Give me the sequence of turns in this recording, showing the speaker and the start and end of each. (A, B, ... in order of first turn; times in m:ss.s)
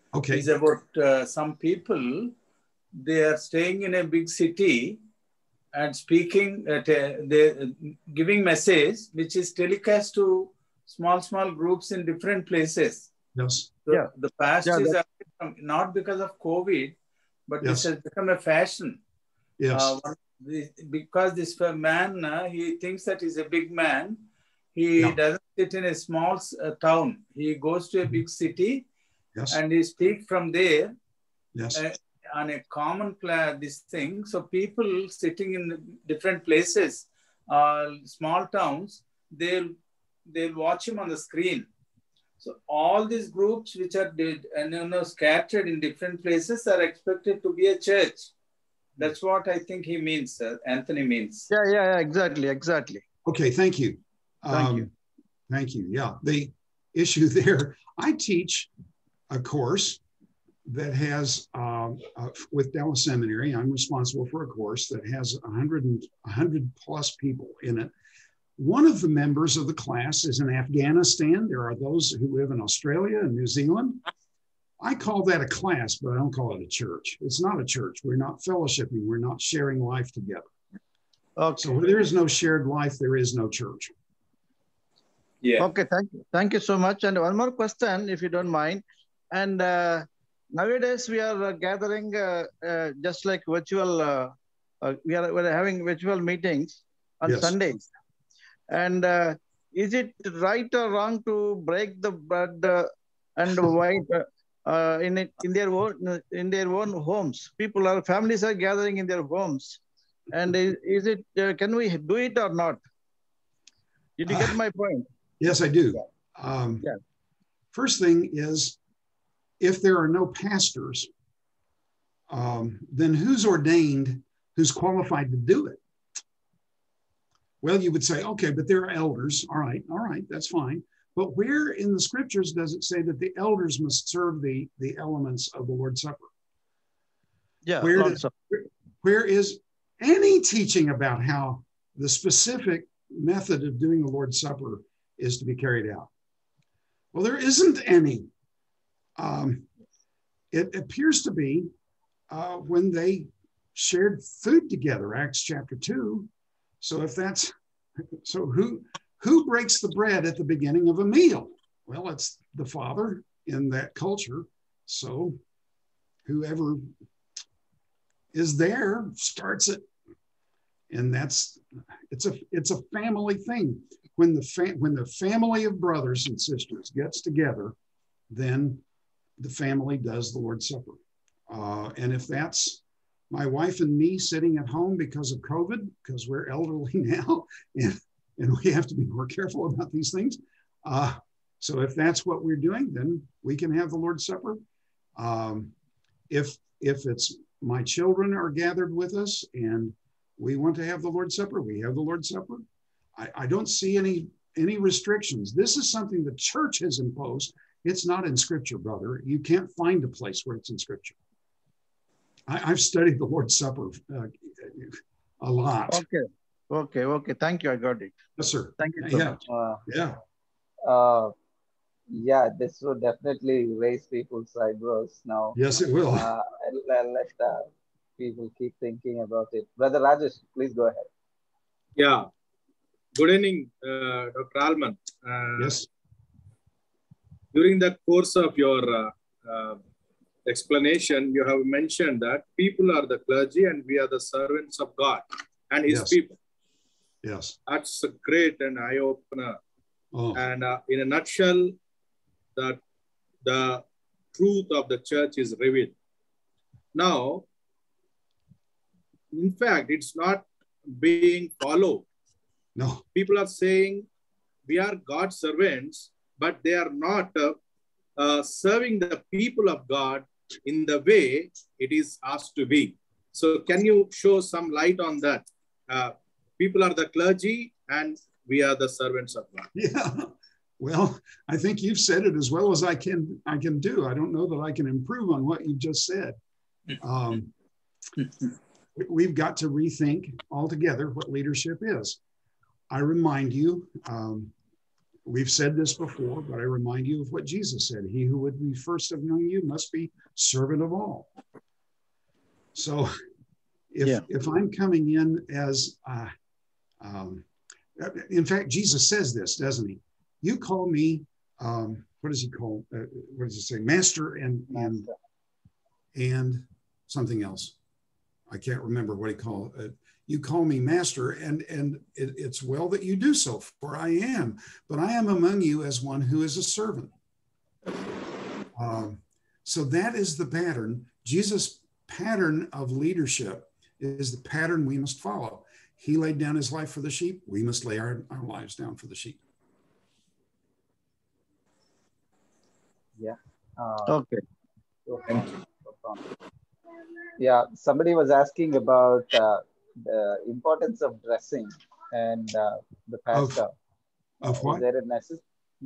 0:00.1-0:00.5 A
0:00.3-0:02.3 B
0:02.9-0:05.0 B
0:05.7-0:13.1 B
0:13.3-0:13.7 A
0:13.9-0:17.0 B
0:14.6-0:15.0 C
0:17.5-0:19.0 B
0:17.6-0:17.9 A
0:19.6-0:20.0 A
0:19.7-0:24.2 B
0:24.7-0:28.8 B
0:29.5-0:30.9 B
0:31.5-0:31.8 A
0:31.7-0:39.7 B
0:40.3-0:41.6 B
0:42.4-0:48.3 B
0:49.0-0:51.5 B
0:51.5-0:53.0 C
0:53.2-0:54.9 A
0:54.5-0:54.9 C
0:55.5-0:58.7 A
0:59.3-1:00.0 A
1:00.7-1:07.9 A
1:08.6-1:14.0 A
1:14.8-1:20.5 A
1:21.4-1:21.8 C
1:21.6-1:23.9 A
1:25.4-1:25.7 B
1:25.6-1:37.8 C
1:37.2-1:37.6 A
1:38.7-1:52.8 C
1:54.2-1:55.1 C
1:54.3-1:54.5 A
1:55.4-1:56.8 A
1:57.7-1:58.8 A
1:59.6-2:01.1 A
2:02.3-2:05.8 A
2:07.6-2:16.3 A
2:17.6-2:18.3 C
2:17.8-2:26.1 A
2:27.1-2:28.3 A
2:29.2-2:29.7 A
2:30.5-2:31.7 A
2:32.3-2:36.3 A
2:36.8-2:37.5 A
2:38.2-2:45.4 A
2:46.2-2:46.9 A
2:48.3-2:49.8 A
2:50.9-2:57.7 A
2:58.3-2:58.8 A
2:59.4-3:01.0 A
3:01.5-3:14.6 A
3:15.2-3:15.7 A
3:16.3-3:22.6 A
3:23.2-3:31.2 A
3:32.5-3:36.0 A
3:35.9-3:38.1 C
3:38.4-3:40.2 A
3:38.8-3:39.4 C
3:39.4-3:39.8 D
3:40.8-3:41.3 D
3:42.1-3:45.6 D
3:45.5-3:46.3 A
3:46.1-3:51.1 D
3:52.0-3:52.3 E
3:53.1-3:55.8 E
3:55.6-3:55.9 A
3:57.5-3:59.8 E
4:00.4-4:06.4 E
4:05.9-4:06.2 A
4:07.2-4:07.6 A
4:07.7-4:09.6 E
4:10.1-4:10.4 A
4:10.3-4:11.8 E
4:12.6-4:12.8 E
4:13.4-4:15.9 E
4:16.9-4:17.5 E
4:19.3-4:22.1 E
4:22.8-4:23.0 A
4:23.1-4:24.1 E
4:24.6-4:27.6 E
4:28.2-4:39.7 E
4:39.7-4:46.4 A
4:47.0-4:47.5 A
4:49.0-4:52.2 A
4:52.9-4:54.5 A
4:55.2-5:01.3 A
5:02.7-5:03.1 A
5:03.9-5:06.3 A
5:07.0-5:07.4 A
5:08.0-5:15.1 A
5:14.8-5:15.1 D
5:16.1-5:17.7 A
5:18.5-5:27.1 A
5:28.8-5:39.4 A
5:43.2-5:44.1 D
5:44.0-5:44.4 C
5:45.1-5:46.2 D
5:47.4-5:53.7 D
5:53.3-5:53.6 A
5:54.4-5:54.8 A
5:54.4-5:55.4 D